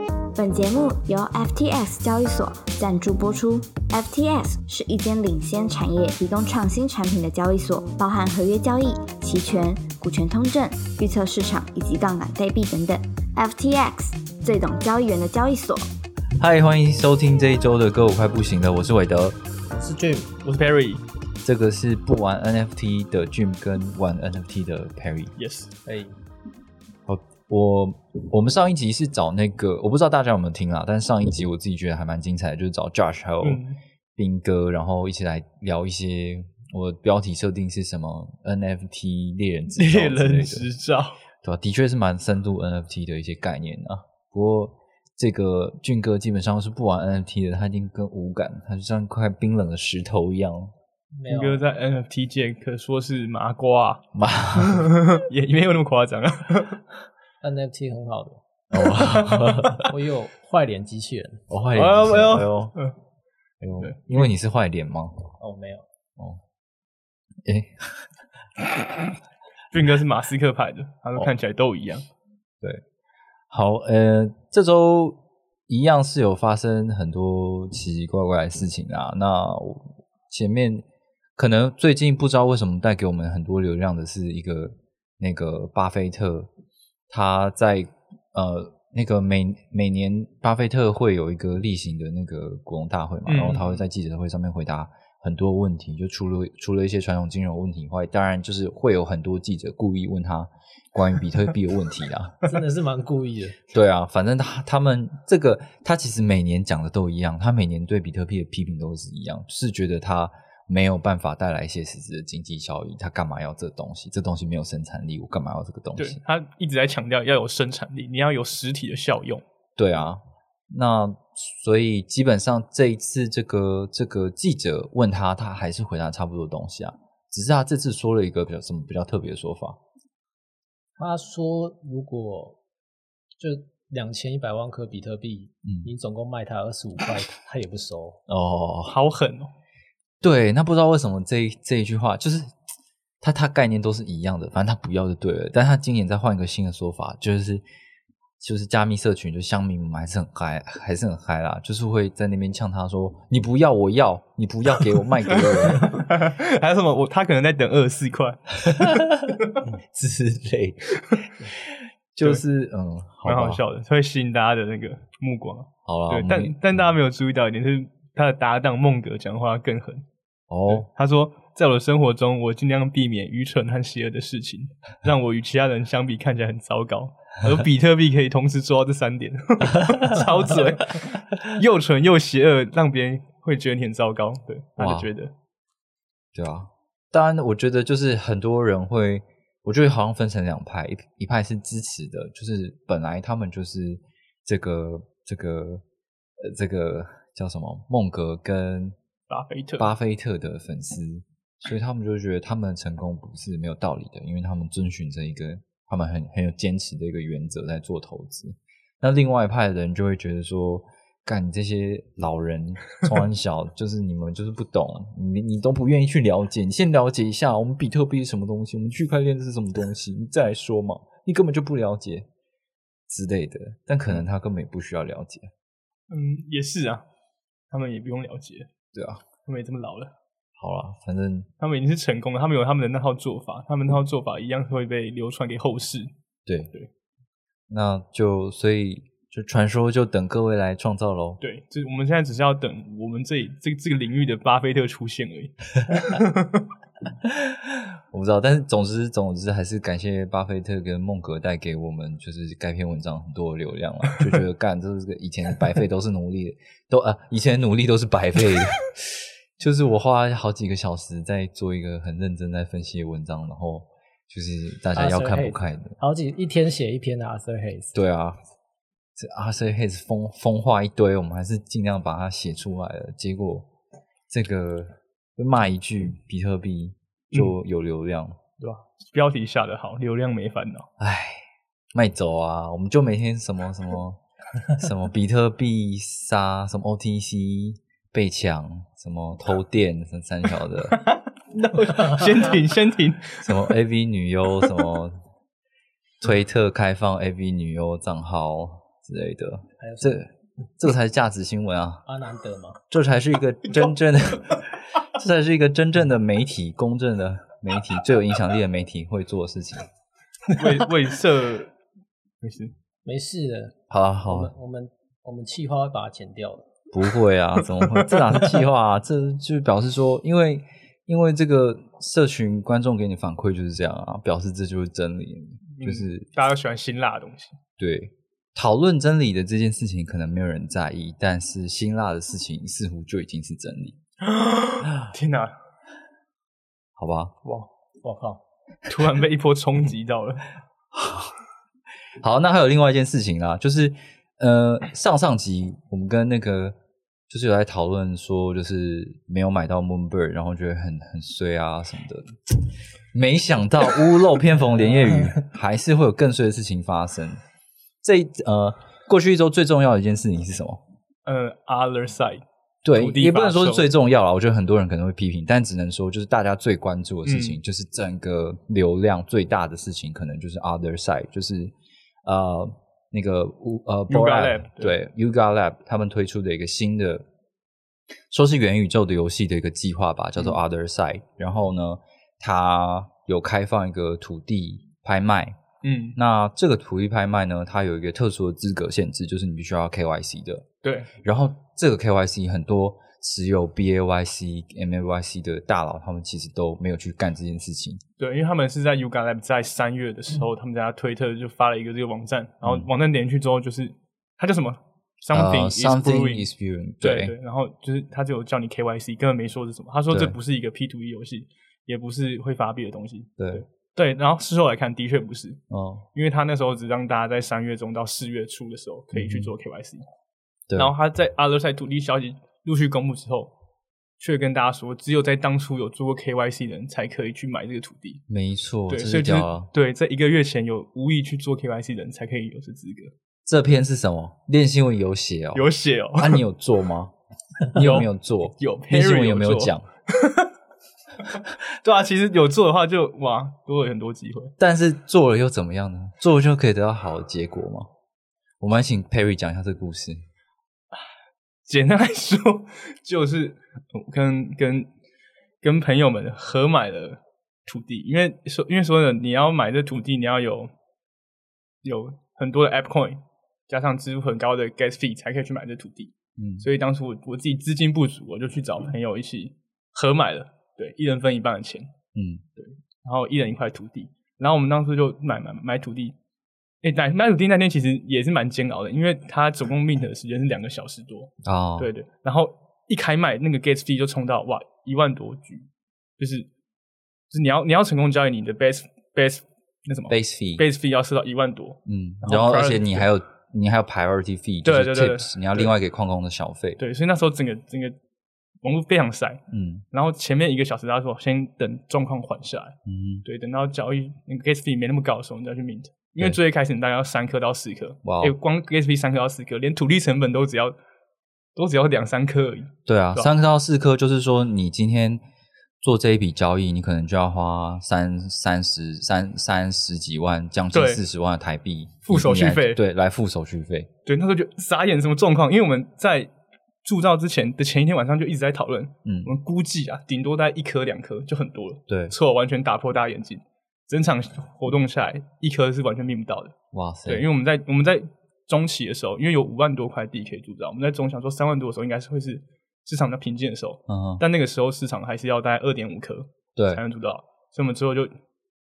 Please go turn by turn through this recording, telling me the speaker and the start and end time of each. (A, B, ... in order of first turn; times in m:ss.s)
0:00.4-0:15.9 A
0:16.4-0:19.4 B
0:19.7-0:20.3 C
0:20.4-0:21.0 D
0:21.4-0:25.3 B
0:25.4-0:25.7 D
0:25.9-0:26.2 C
0:27.1-0:33.6 B
0:33.4-0:33.8 D
0:34.2-0:40.7 B
0:39.8-0:41.2 D
0:41.4-0:50.7 B
0:51.2-0:51.6 C
0:51.3-0:56.8 D
0:54.1-0:54.9 B
0:57.4-0:58.4 C
0:58.7-0:59.9 B
0:59.7-1:01.4 C
1:01.5-1:02.8 B
1:01.8-1:03.0 D
1:03.6-1:05.3 B
1:03.8-1:04.3 D
1:05.4-1:05.8 C
1:07.4-1:08.0 B
1:09.7-1:12.0 D
1:13.5-1:20.8 B
1:21.4-1:26.5 B
1:27.1-1:42.4 B
1:33.3-1:33.8 D
1:42.4-1:43.6 C
1:43.7-1:56.2 B
1:56.0-1:59.4 D
1:59.8-2:09.8 B
2:11.0-2:12.6 C
2:13.4-2:18.2 C
2:18.3-2:19.0 B
2:18.9-2:19.5 D
2:20.2-2:22.5 B
2:23.2-2:27.6 B
2:28.4-2:36.1 B
2:35.3-2:38.5 D
2:38.6-2:43.6 B
2:41.0-2:41.3 D
2:43.2-2:50.0 D
2:45.9-2:46.8 B
2:50.5-2:50.9 B
2:50.7-3:05.3 D
3:04.8-3:05.1 B
3:06.3-3:15.8 B
3:16.4-3:19.0 B
3:19.3-3:19.9 D
3:19.8-3:42.3 B
3:43.1-3:45.5 B
3:46.1-3:47.0 D
3:47.7-3:48.7 D
3:48.9-3:49.2 B
3:49.4-3:50.1 D
3:50.6-3:51.5 B
3:51.6-3:56.1 D
3:56.5-3:56.7 B
3:57.7-4:01.4 B
4:01.4-4:06.7 D
4:07.3-4:26.0 B
4:24.9-4:28.0 C
4:27.9-4:28.4 B
4:29.2-4:33.7 B
4:34.3-4:38.4 B
4:37.3-4:37.6 D
4:38.6-4:40.9 D
4:41.0-4:41.4 B
4:41.9-4:44.2 B
4:44.8-4:51.0 B
4:50.9-4:53.6 D
4:53.4-4:55.2 B
4:56.2-5:02.0 B
4:59.8-5:00.2 C
5:02.1-5:02.8 C
5:02.9-5:09.9 B
5:10.5-5:11.8 D
5:12.4-5:12.7 D
5:13.0-5:13.8 C
5:13.9-5:14.5 B
5:14.3-5:16.7 C
5:16.9-5:26.3 B
5:17.8-5:18.1 D
5:25.7-5:27.6 D
5:27.8-5:34.0 B
5:34.2-5:35.6 D
5:37.0-5:37.3 B
5:38.0-5:38.4 C
5:38.9-5:40.5 D
5:40.9-5:41.3 B
5:42.2-5:46.8 B
5:47.3-5:52.6 B
5:53.1-5:57.4 B
5:58.0-6:00.8 B
6:01.3-6:03.9 D
6:02.8-6:11.7 B
6:07.2-6:07.6 D
6:12.2-6:17.3 B
6:14.1-6:15.0 D
6:18.3-6:25.6 B
6:25.8-6:26.2 D
6:26.2-6:30.7 B
6:30.8-6:31.1 D
6:31.2-6:38.0 B
6:38.2-6:46.5 D
6:45.3-6:47.3 B
6:47.0-6:55.6 D
6:50.1-6:50.4 B
6:53.4-6:53.6 B
6:55.7-6:56.0 B
6:56.1-7:00.0 D
6:59.1-6:59.5 B
7:00.8-7:03.5 D
7:04.2-7:08.2 D
7:08.3-7:09.7 B
7:08.9-7:13.1 D
7:13.4-7:17.1 B
7:15.5-7:16.4 D
7:17.7-7:19.8 B
7:17.8-7:20.5 D
7:21.3-7:24.6 D
7:24.6-7:27.9 B
7:28.6-7:30.2 B
7:31.7-7:34.9 D
7:35.6-7:40.7 D
7:41.8-7:51.9 D
7:46.4-7:46.7 B
7:52.2-7:52.4 B
7:52.6-7:56.2 D
7:56.8-8:05.7 D
8:01.4-8:01.9 B
8:06.2-8:06.5 D
8:07.3-8:13.1 D
8:10.1-8:10.6 B
8:11.9-8:16.8 B
8:14.6-8:15.7 D
8:16.8-8:18.0 D
8:18.6-8:19.4 D
8:19.5-8:19.8 B
8:19.9-8:30.8 D
8:22.9-8:23.2 B
8:28.0-8:28.4 B
8:31.6-8:33.3 D
8:32.9-8:35.2 B
8:35.8-8:43.9 B
8:40.7-8:41.0 D
8:42.0-8:42.8 D
8:44.1-8:46.3 D
8:46.8-9:08.1 D
8:49.0-8:49.3 B
8:51.9-8:52.2 B
8:56.7-8:57.3 B
9:03.9-9:04.2 B
9:06.6-9:06.8 B